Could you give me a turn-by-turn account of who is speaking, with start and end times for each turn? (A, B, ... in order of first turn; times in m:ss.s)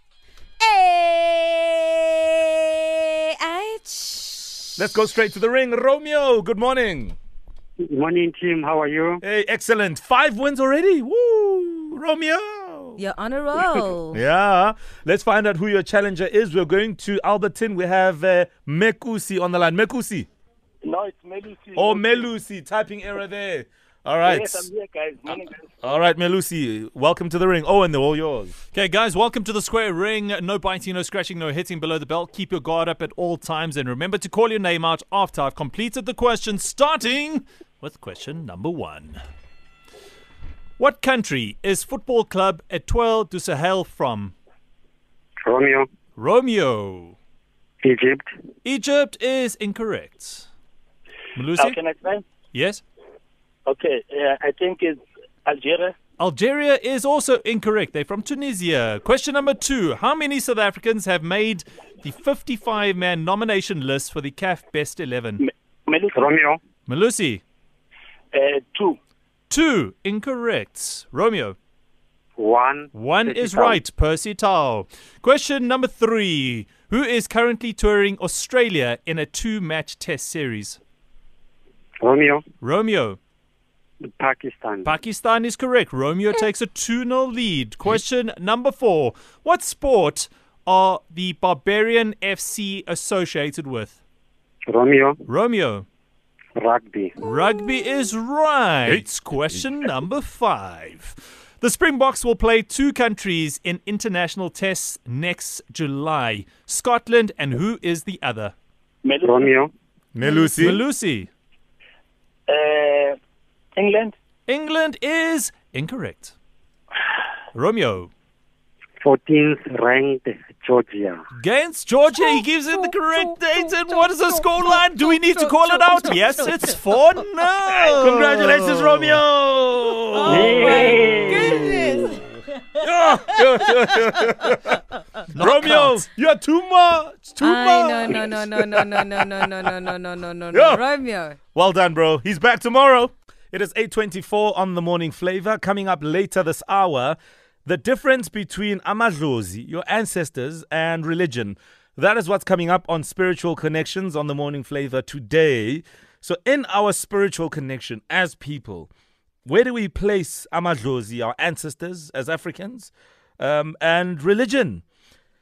0:00.6-0:04.7 A
0:04.8-0:07.2 B
0:07.9-0:09.2 C
0:09.2-0:13.0 B
0:13.0-0:14.2 A
0:14.1-0:20.3 B
0:20.8-0:22.3 D
0:21.7-0:24.7 B
0:24.2-0:25.6 D
0:25.8-0:28.5 B
0:28.7-0:39.2 E
0:40.8-0:44.3 E
0:45.4-0:45.9 C
0:46.2-0:47.2 E
0:47.8-0:48.3 C
0:48.6-0:50.5 E
0:51.4-0:51.8 E
0:51.6-0:52.2 D
0:52.5-0:52.8 E
0:53.7-0:56.0 D
0:56.2-1:05.4 E
1:05.4-1:06.3 D
1:06.1-1:06.6 C
1:06.9-1:07.4 E
1:08.3-1:09.0 D
1:09.5-1:11.6 E
1:12.4-1:13.8 C
1:12.9-1:20.8 E
1:22.0-1:22.4 C
1:22.6-1:23.2 E
1:24.2-1:24.9 C
1:24.8-1:34.0 E
1:34.7-1:35.2 C
1:35.2-1:35.8 E
1:36.6-1:37.1 C
1:37.2-1:48.5 E
1:49.0-1:49.5 D
1:49.2-1:49.7 C
1:50.1-1:50.8 B
1:50.2-1:51.3 E
1:52.5-1:53.2 D
1:53.8-1:54.1 D
1:54.5-1:56.3 E
1:57.5-1:58.1 E
1:59.0-2:01.2 C
2:01.4-2:08.9 E
2:07.8-2:10.7 B
2:10.2-2:12.2 A
2:10.3-2:11.6 C
2:10.3-2:10.8 E
2:11.6-2:12.0 E
2:12.7-2:14.8 B
2:15.3-2:16.0 E
2:15.3-2:19.7 B
2:17.4-2:21.4 A
2:20.5-2:20.8 B
2:21.5-2:38.9 B
2:39.4-2:44.8 B